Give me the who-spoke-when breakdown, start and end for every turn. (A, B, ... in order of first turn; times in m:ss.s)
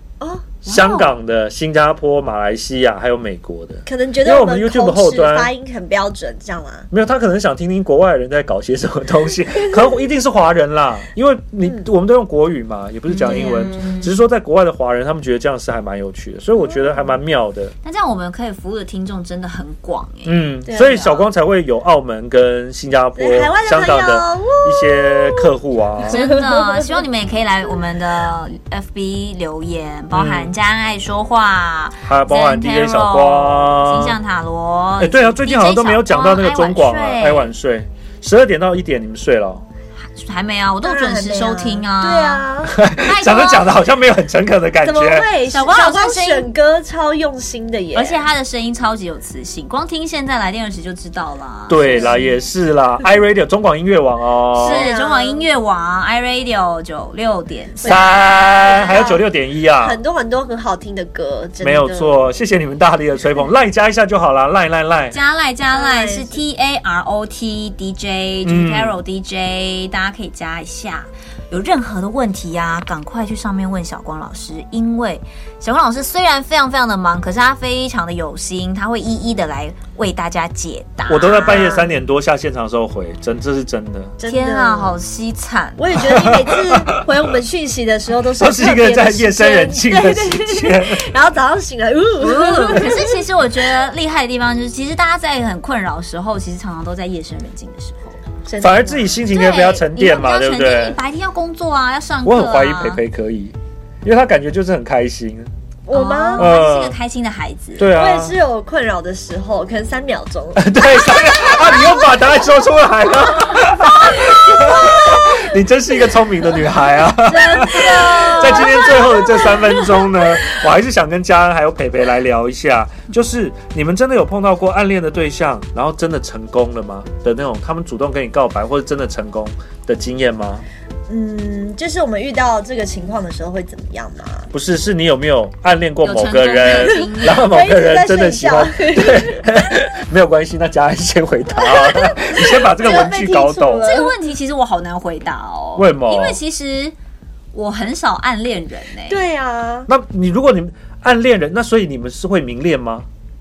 0:00.2-0:00.5 A
0:00.6-0:01.1 B
0:00.6-0:05.5 C
0:03.9-0:06.9 A
0:06.9-0:17.7 C
0:13.1-0:14.1 B
0:13.2-0:13.8 A
0:16.7-0:17.1 A
0:17.8-0:21.2 B
0:20.2-0:26.3 C
0:20.7-0:21.1 A
0:23.2-0:25.5 A
0:26.1-0:27.0 A
0:26.1-0:37.5 B
0:30.1-0:30.5 C
0:32.0-0:34.2 C
0:35.0-0:39.6 C
0:40.0-0:43.7 B
0:40.8-0:42.8 A
0:42.7-0:45.3 C
0:44.8-0:48.3 A
0:45.5-0:46.5 B
0:47.9-0:52.2 B
0:51.7-0:54.9 C
0:51.9-0:52.2 A
0:54.6-0:58.0 B
0:54.6-0:55.4 A
0:57.8-0:59.2 A
0:57.9-1:00.0 C
0:59.8-1:02.2 A
1:01.6-1:05.1 C
1:05.1-1:21.7 B
1:05.7-1:06.4 A
1:08.4-1:08.9 C
1:21.1-1:24.1 C
1:21.4-1:21.9 A
1:24.2-1:25.0 A
1:24.2-1:26.0 B
1:25.8-1:33.1 A
1:26.0-1:27.0 C
1:28.4-1:31.0 C
1:32.2-1:38.2 B
1:38.4-1:39.2 A
1:38.6-1:41.0 C
1:39.3-1:43.0 B
1:42.2-1:45.5 C
1:45.9-1:46.5 A
1:45.9-1:47.9 B
1:46.4-1:47.0 C
1:47.8-1:48.4 C
1:47.9-1:50.7 A
1:50.6-2:10.6 C
1:54.6-1:55.4 A
1:57.3-1:58.9 B
1:57.3-2:00.3 A
2:11.1-2:14.5 A
2:14.5-2:23.9 C
2:16.0-2:17.5 B
2:17.0-2:19.7 A
2:21.6-2:24.3 A
2:23.8-2:26.9 B
2:25.8-2:26.4 C
2:27.5-2:29.2 B
2:29.1-2:29.9 A
2:29.9-2:33.1 C